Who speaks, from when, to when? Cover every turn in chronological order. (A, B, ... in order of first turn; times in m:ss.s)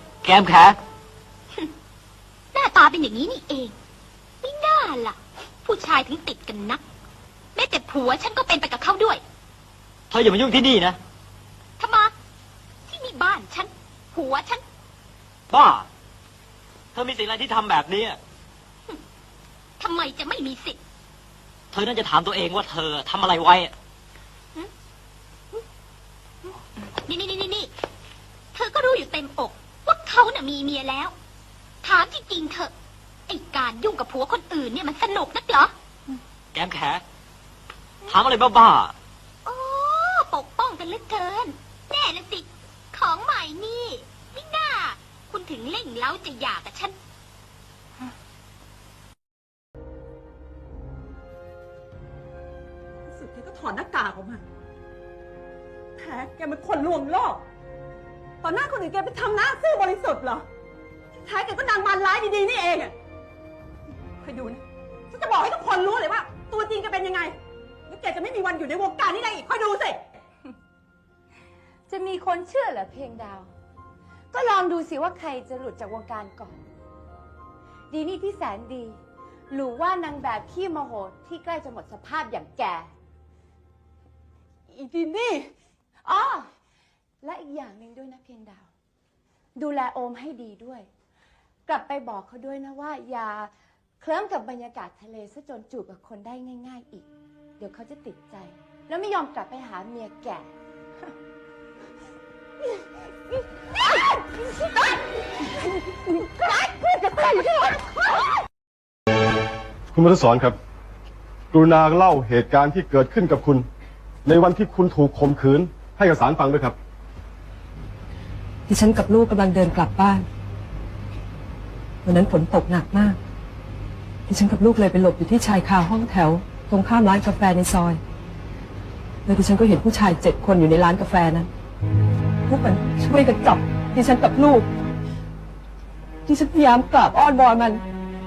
0:00.2-0:00.8 A
0:02.5-0:03.7 B
0:04.4-0:06.8 B
0:07.5-0:09.2 B
0:10.1-0:11.0 A
0:11.8-0:12.1 B
0:12.9-0:14.6 B
0:15.5-0:15.8 A
0:16.9-0:18.2 A
0:19.8-0:20.8 B
0:21.7-0:23.7 A
0:26.4-0:27.7 B
0:28.5-0:31.1 B
0:31.8-0:32.7 B
0:33.3-0:35.7 B
0:36.5-0:37.0 A
0:38.1-0:38.9 A
0:39.4-0:47.0 B
0:53.1-0:54.4 C
0:56.0-0:57.4 C
0:58.4-1:00.4 C
1:01.2-1:02.9 C
1:04.2-1:07.3 C
1:07.9-1:10.0 C
1:11.9-1:13.5 D
1:14.3-1:16.6 D
1:17.9-1:22.9 D
1:24.7-1:25.5 C
1:26.0-1:26.5 D
1:27.2-1:28.7 D
1:29.6-1:30.9 D
1:31.6-1:37.1 D
1:37.6-1:40.5 D
1:45.8-1:47.8 D
1:49.9-1:50.6 E
1:51.5-1:53.6 E
1:54.2-1:56.8 E
1:58.7-2:00.2 F
2:02.0-2:03.2 F
2:04.3-2:08.0 F
2:09.2-2:11.5 F
2:12.5-2:14.7 F
2:16.2-2:17.8 F